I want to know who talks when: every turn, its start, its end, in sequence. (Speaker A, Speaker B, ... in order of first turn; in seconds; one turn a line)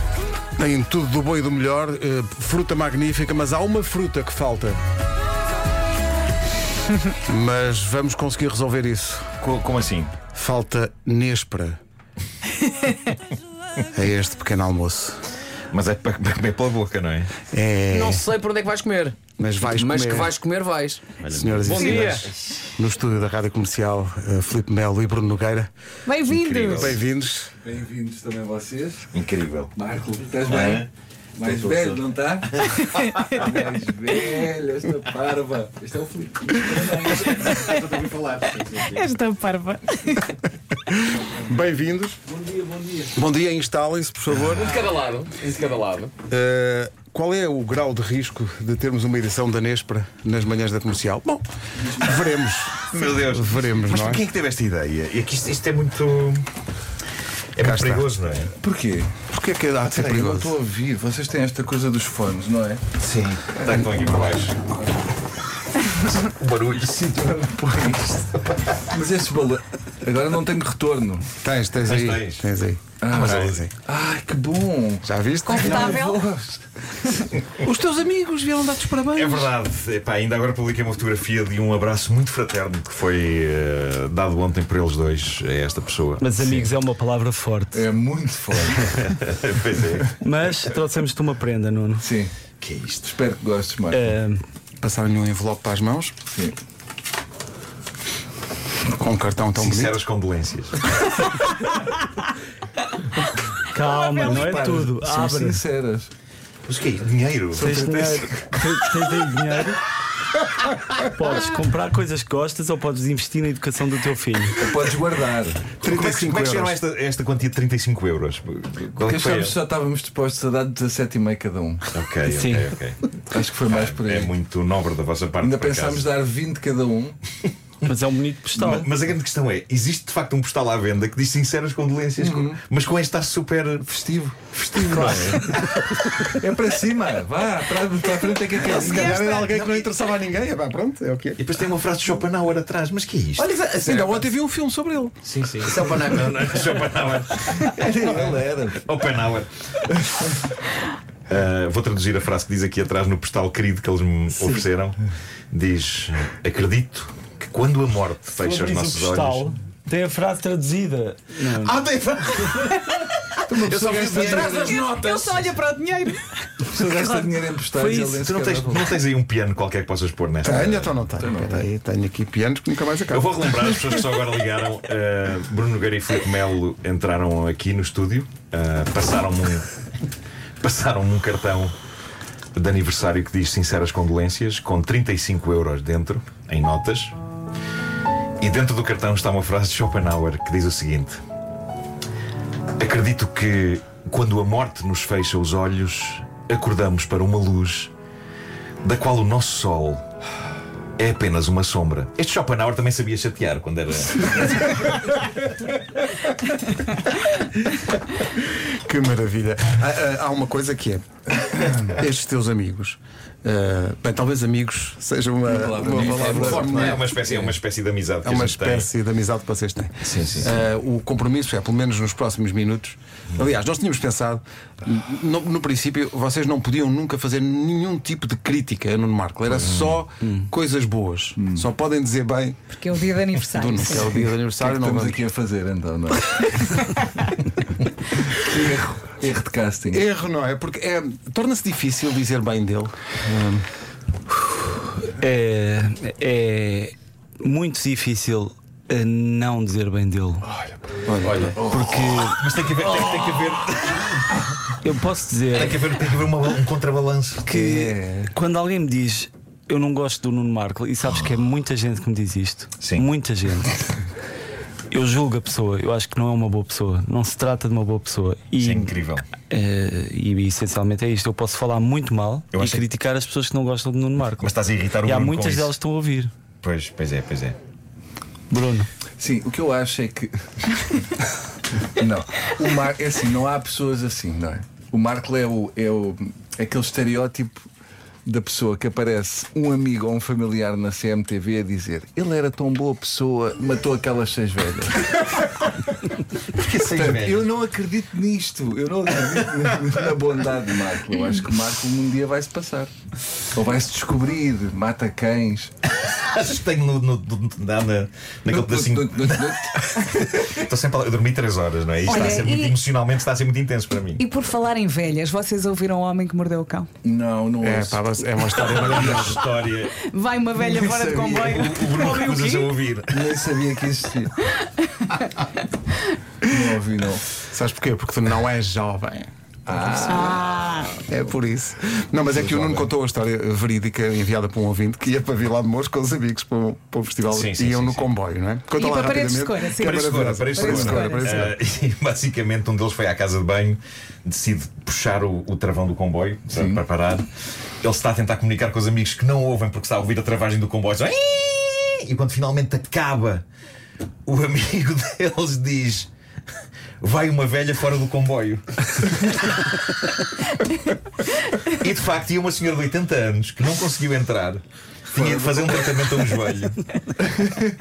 Speaker A: 0.5-4.8
Speaker A: 7.2-9.3
Speaker B: 9.4-10.1
Speaker A: 10.3-11.8
Speaker A: 13.9-15.2
Speaker B: 15.7-17.3
Speaker A: 17.5-18.2
Speaker C: 17.9-19.2
Speaker A: 19.4-20.3
Speaker C: 19.7-21.2
Speaker B: 21.2-22.6
Speaker A: 21.3-25.7
Speaker C: 21.7-22.3
Speaker D: 21.7-22.2
Speaker D: 26.1-26.9
Speaker B: 26.2-27.0
Speaker A: 26.7-27.5
Speaker E: 27.6-29.1
Speaker B: 29.1-29.7
Speaker E: 29.7-37.8
Speaker B: 30.4-30.9
Speaker B: 31.4-33.5
Speaker D: 32.8-33.5
Speaker B: 37.1-39.0
Speaker D: 37.5-37.8
Speaker D: 38.7-40.4
Speaker A: 40.9-42.2
Speaker E: 41.1-41.6
Speaker E: 42.2-43.2
Speaker A: 43.1-44.8
Speaker C: 44.5-46.1
Speaker A: 46.3-54.2
Speaker B: 52.8-56.5
Speaker B: 57.5-58.5
Speaker A: 57.6-58.1
Speaker E: 58.6-59.1
Speaker A: 59.3-60.5
Speaker E: 59.8-62.8
Speaker B: 63.0-64.6
Speaker E: 63.5-64.8
Speaker B: 65.8-67.1
Speaker E: 66.8-71.3
Speaker B: 67.8-68.8
Speaker A: 71.4-73.7
Speaker B: 71.8-72.4
Speaker E: 73.0-77.3
Speaker B: 73.1-73.6
Speaker A: 75.0-76.1
Speaker D: 75.5-76.2
Speaker A: 77.6-79.5
Speaker B: 79.1-86.7
Speaker F: 86.2-87.8
Speaker E: 87.7-89.1
Speaker B: 88.8-90.2
Speaker F: 90.2-92.1
Speaker E: 92.0-92.3
Speaker B: 92.6-93.1
Speaker E: 93.0-94.2
Speaker F: 93.9-94.4
Speaker A: 94.8-96.2
Speaker E: 96.3-96.6
Speaker A: 98.9-100.0
Speaker B: 99.6-101.2
Speaker F: 103.7-105.6
Speaker D: 104.0-104.3
Speaker E: 104.1-106.1
Speaker B: 106.7-107.7
Speaker F: 107.5-109.8
Speaker E: 107.5-108.1
Speaker A: 107.7-108.0
Speaker F: 111.0-114.7
Speaker E: 114.5-115.7
Speaker A: 115.8-116.8
Speaker B: 115.8-119.5
Speaker E: 119.0-121.9
Speaker B: 121.9-123.1
Speaker F: 122.2-122.7
Speaker E: 123.2-124.3
Speaker B: 123.7-126.1
Speaker E: 125.4-127.2
Speaker F: 127.8-128.9
Speaker B: 128.5-133.9
Speaker E: 132.2-132.6
Speaker E: 133.9-139.2
Speaker B: 134.6-136.1
Speaker A: 138.6-141.4
Speaker D: 138.6-139.9
Speaker B: 141.4-143.5
Speaker A: 143.4-145.2
Speaker C: 143.8-144.2
Speaker B: 145.2-150.4
Speaker C: 145.6-146.3
Speaker E: 147.6-148.9
Speaker B: 151.3-155.0
Speaker B: 155.5-159.5
Speaker F: 158.4-161.9
Speaker B: 161.5-164.8
Speaker E: 163.5-164.7
Speaker C: 163.6-165.5
Speaker A: 163.6-164.4
Speaker D: 164.5-166.3
Speaker E: 166.6-169.0
Speaker F: 166.9-168.2
Speaker B: 168.1-170.9
Speaker A: 170.4-173.8
Speaker E: 171.1-171.7
Speaker B: 173.1-179.7
Speaker B: 180.6-181.8
Speaker B: 182.5-187.2
Speaker B: 188.4-191.2
Speaker B: 192.8-197.9
Speaker B: 198.8-200.1
Speaker B: 201.0-205.1
Speaker A: 208.6-217.5
Speaker E: 215.4-216.9
Speaker C: 216.0-217.4
Speaker B: 216.4-218.9
Speaker A: 218.2-232.6
Speaker B: 220.0-220.5
Speaker B: 229.5-230.0
Speaker E: 231.3-231.7
Speaker D: 232.7-234.2
Speaker A: 233.4-235.2
Speaker E: 234.6-236.7
Speaker E: 238.3-240.1
Speaker A: 239.9-243.7
Speaker F: 245.0-250.5
Speaker E: 250.5-252.3
Speaker A: 251.1-251.6
Speaker C: 251.2-251.6
Speaker F: 251.6-252.4
Speaker B: 252.2-254.4
Speaker F: 254.8-255.8
Speaker B: 255.5-257.5
Speaker F: 257.4-263.8
Speaker E: 257.5-258.3
Speaker B: 262.8-263.1
Speaker F: 264.9-268.9
Speaker B: 268.6-269.3
Speaker F: 269.4-274.5
Speaker B: 272.5-272.8
Speaker B: 274.4-275.7
Speaker F: 275.0-276.3
Speaker B: 276.6-277.6
Speaker F: 278.5-278.9
Speaker E: 279.2-281.1
Speaker E: 281.9-287.6
Speaker E: 288.2-295.4
Speaker B: 296.5-297.5
Speaker E: 296.8-302.9
Speaker E: 303.5-305.7
Speaker B: 306.0-314.2
Speaker E: 308.5-310.6
Speaker D: 312.0-312.8
Speaker D: 314.2-316.9
Speaker E: 317.0-318.1
Speaker A: 317.6-319.4
Speaker B: 318.6-320.0
Speaker E: 318.8-319.3
Speaker D: 319.9-322.8
Speaker E: 320.6-321.8
Speaker B: 321.3-323.3
Speaker E: 323.1-324.3
Speaker E: 326.4-327.2
Speaker A: 327.4-329.3
Speaker E: 329.6-330.5
Speaker D: 330.0-331.0
Speaker A: 331.0-341.5
Speaker E: 332.3-332.9
Speaker B: 337.3-338.1
Speaker D: 338.7-341.5
Speaker B: 339.8-347.3
Speaker E: 346.5-346.8
Speaker B: 347.8-353.4
Speaker B: 354.2-356.1
Speaker B: 357.0-359.6
Speaker B: 361.6-366.8
Speaker E: 365.1-365.6
Speaker E: 367.3-367.7